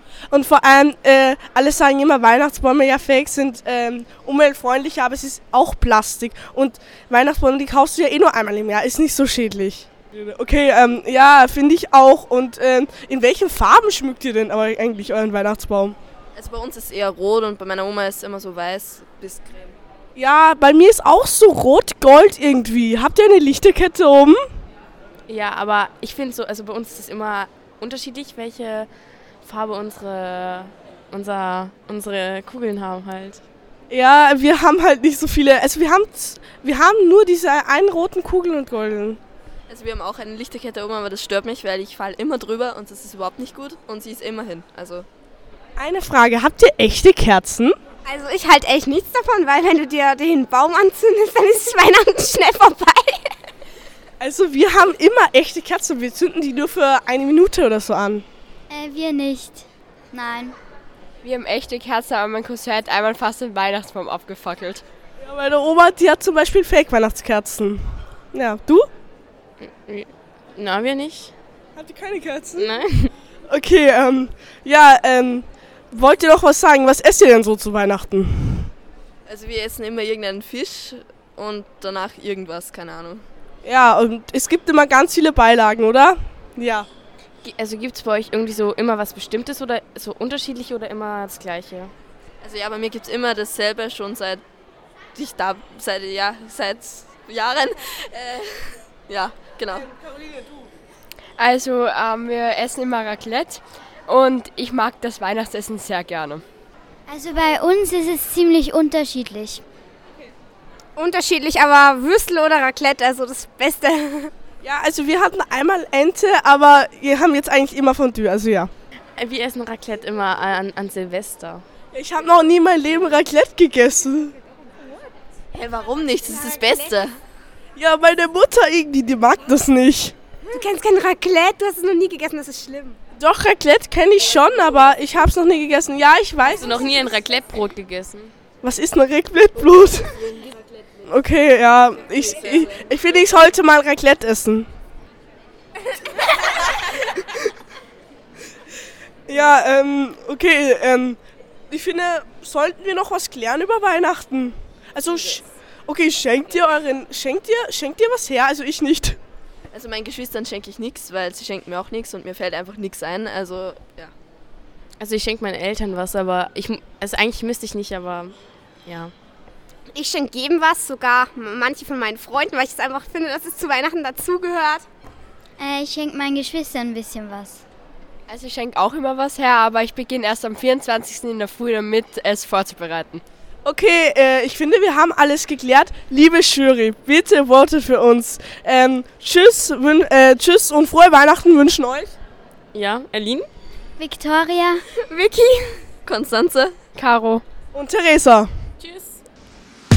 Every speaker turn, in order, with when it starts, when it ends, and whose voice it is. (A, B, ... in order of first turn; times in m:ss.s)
0:00.3-0:16.0 A
0:16.4-0:19.8 B
0:20.2-0:24.4 A
0:25.3-0:28.9 C
0:29.4-0:33.4 C
0:33.9-0:39.2 A
0:39.7-0:45.1 B
0:45.8-0:47.8 A
0:48.1-0:53.2 D
0:54.2-0:58.2 A
0:58.7-1:00.6 E
1:01.2-1:04.8 F
1:05.2-1:08.9 A
1:09.6-1:11.3 C
1:11.8-1:12.7 A
1:12.6-1:13.1 C
1:13.5-1:18.7 A
1:19.3-1:23.2 B
1:23.6-1:26.9 A
1:27.4-1:31.9 C
1:32.4-1:34.4 B
1:35.2-1:39.9 B
1:41.4-1:46.4 F
1:47.1-1:49.6 E
1:51.0-1:54.3 D
1:54.6-1:58.7 A
1:59.2-2:01.6 C
2:01.9-2:04.3 A
2:05.5-2:07.1 B
2:06.3-2:06.9 D
2:07.8-2:10.2 A
2:10.5-2:13.0 D
2:13.2-2:16.7 A
2:16.4-2:18.3 C
2:18.6-2:20.3 A
2:21.0-2:24.7 A
2:29.3-2:31.2 A
2:31.7-2:39.2 A
2:39.7-2:44.1 B
2:45.0-2:48.4 C
2:48.9-2:49.1 C
2:49.9-2:54.9 D
2:55.6-2:57.6 E
2:58.3-3:03.2 F
3:03.6-3:12.1 A
3:12.7-3:13.5 C
3:14.0-3:14.8 E
3:15.0-3:15.6 D
3:16.1-3:16.7 B
3:17.0-3:17.4 F
3:17.7-3:18.5 A
3:18.8-3:19.2 C